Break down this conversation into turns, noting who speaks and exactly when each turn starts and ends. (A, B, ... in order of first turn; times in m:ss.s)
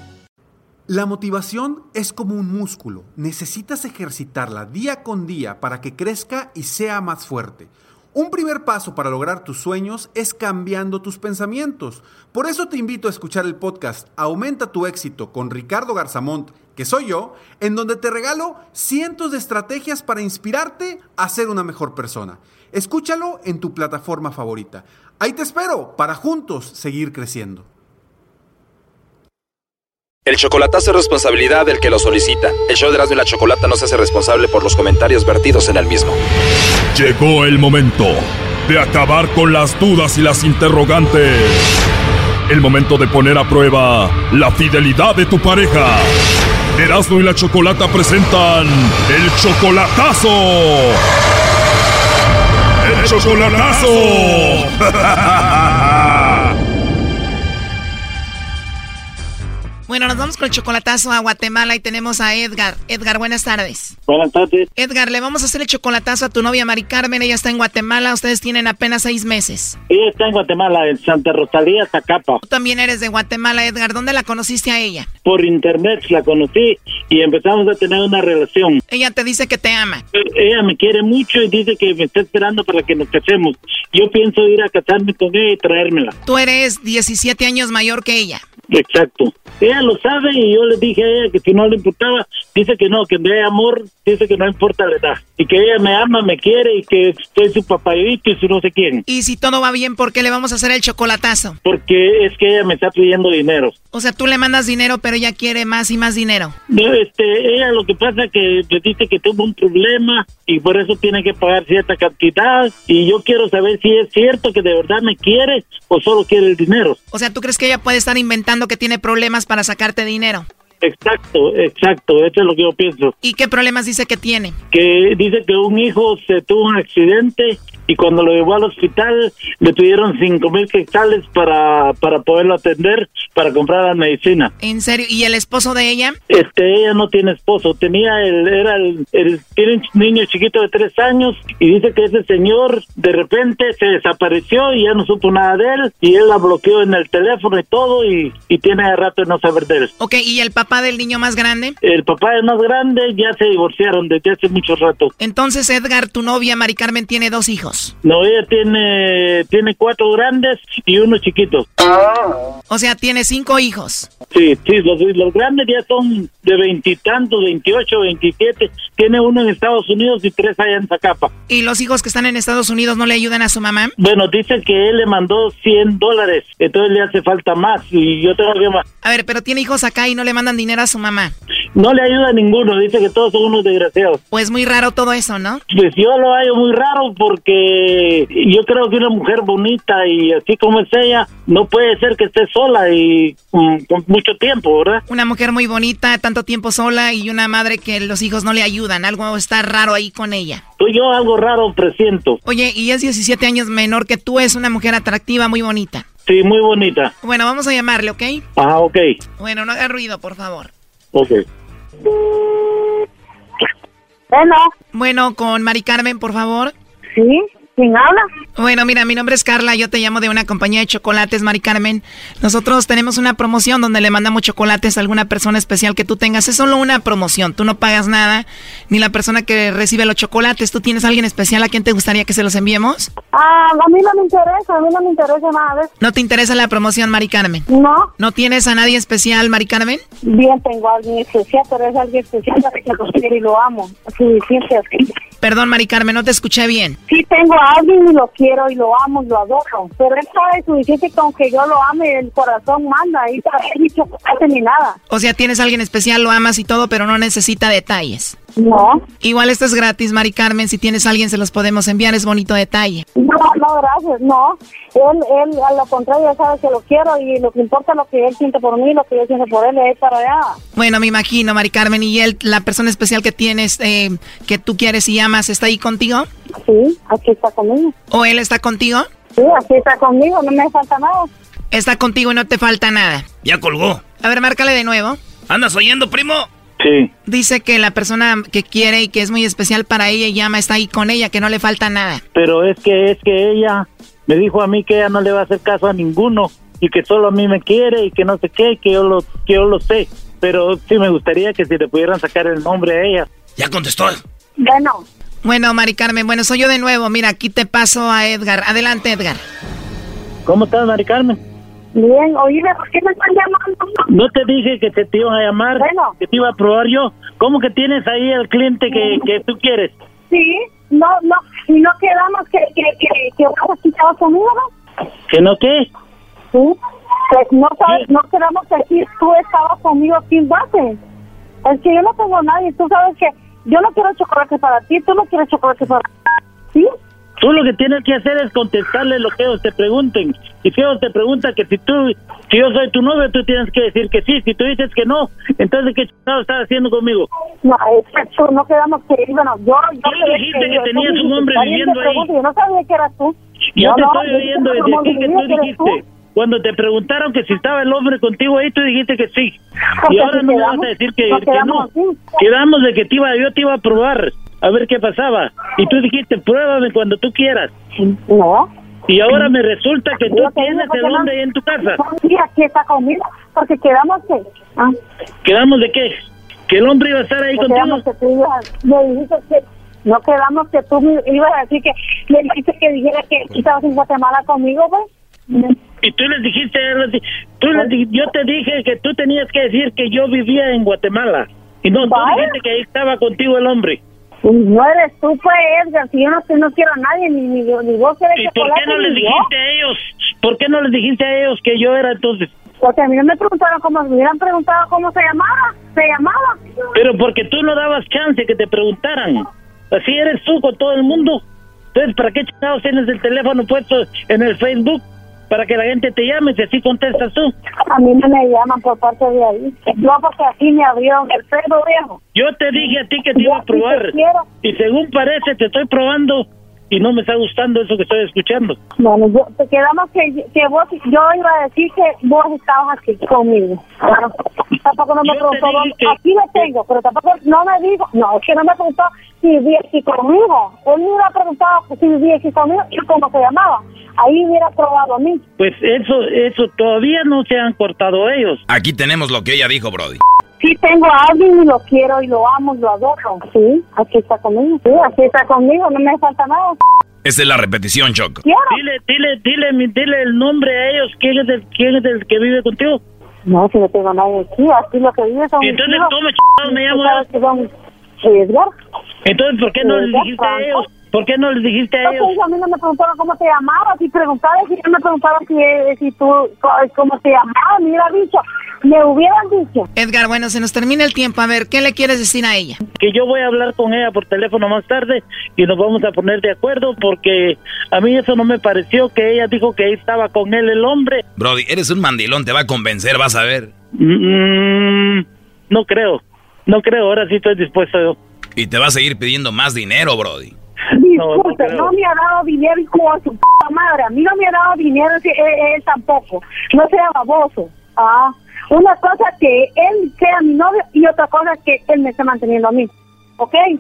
0:00.9-0:27.7 A
0:30.3-0:36.2 B
0:36.9-0:41.8 C
0:42.5-0:46.1 C
0:46.8-0:51.0 C
0:52.8-0:56.2 C
0:59.9-1:04.0 D
1:04.1-1:04.7 E
1:04.8-1:09.8 D
1:09.9-1:12.4 E
1:12.4-1:15.1 D
1:15.2-1:18.8 E
1:18.9-1:20.0 D
1:20.1-1:26.1 E
1:26.2-1:28.4 D
1:28.7-1:39.0 E
1:39.1-1:41.6 D
1:41.6-1:43.7 E
1:43.9-1:46.6 D
1:46.7-1:57.0 E
1:57.1-2:00.5 D
2:00.8-2:03.1 E
2:03.2-2:04.6 D
2:04.7-2:14.5 E
2:14.6-2:16.2 D
2:16.3-2:29.9 E
2:30.0-2:31.8 D
2:31.8-2:35.1 E
2:35.2-2:37.9 D
2:38.0-2:41.7 E
2:42.7-2:44.1 D
2:44.3-2:51.3 E
2:51.5-2:53.9 D
2:54.0-2:58.8 E
2:59.0-3:01.3 D
3:01.8-3:04.2 E
3:04.3-3:05.6 D
3:05.7-3:15.0 E
3:15.1-3:20.6 D
3:20.8-3:22.4 E
3:22.4-3:26.1 D
3:26.3-3:27.1 E
3:27.2-3:28.4 D
3:28.6-3:29.1 E
3:29.4-3:30.7 D
3:31.1-3:31.4 E
3:34.3-3:34.7 F
3:34.9-3:36.7 D
3:37.1-3:38.2 F
3:38.6-3:53.1 D
3:53.3-3:55.9 F
3:56.0-3:57.7 D
3:57.7-3:58.1 F
3:58.2-4:00.0 D
4:00.2-4:05.1 F
4:05.4-4:07.0 D
4:07.1-4:15.0 F
4:15.1-4:18.4 D
4:18.6-4:19.0 F
4:19.2-4:23.0 D
4:23.2-4:30.6 F
4:30.8-4:36.3 D
4:36.6-4:37.9 F
4:38.1-4:39.1 D
4:39.4-4:41.3 F
4:41.7-4:43.3 D
4:43.4-4:44.0 G
4:44.2-4:45.2 D
4:45.5-4:46.5 G
4:46.8-4:47.1 E
4:47.3-4:52.2 D
4:52.3-5:03.3 E
5:03.6-5:04.2 G
5:04.6-5:05.0 F
5:05.4-5:09.4 D
5:10.5-5:11.4 E
5:11.9-5:14.0 F
5:14.1-5:20.0 E
5:15.8-5:16.2 F
5:18.9-5:19.2 F
5:20.3-5:24.6 F
5:25.3-5:25.9 E
5:27.3-5:31.0 F
5:31.6-5:36.1 F
5:37.4-5:47.3 E
5:47.6-5:56.0 F
5:50.0-5:52.3 E
5:53.8-6:01.9 E
6:00.0-6:02.4 F
6:02.4-6:07.7 E
6:08.0-6:08.7 F
6:09.1-6:12.0 E
6:10.2-6:14.9 F
6:15.4-6:16.1 E
6:16.7-6:18.0 E
6:17.6-6:25.8 F
6:26.0-6:34.0 E
6:32.0-6:32.6 F
6:34.4-6:39.5 F
6:38.4-6:42.5 E
6:42.8-6:46.5 F
6:46.9-6:51.4 E
6:51.9-6:57.5 E
6:57.9-7:02.2 F
7:02.3-7:08.8 E
7:03.4-7:04.5 F
7:09.0-7:25.4 F
7:15.2-7:16.7 E
7:25.6-7:28.6 E
7:28.7-7:30.2 G
7:30.6-7:36.8 F
7:37.2-7:38.4 G
7:38.4-7:38.8 F
7:38.7-7:43.0 E
7:43.4-7:46.1 F
7:45.6-7:47.2 E
7:46.6-7:47.7 F
7:48.2-7:48.6 F
7:49.2-7:52.4 E
7:49.8-7:50.9 F
7:52.0-7:59.9 F
8:00.0-8:02.8 D
8:03.0-8:11.2 E
8:11.4-8:13.7 G
8:14.0-8:18.2 E
8:18.6-8:20.5 G
8:20.9-8:33.6 F
8:21.2-8:22.0 E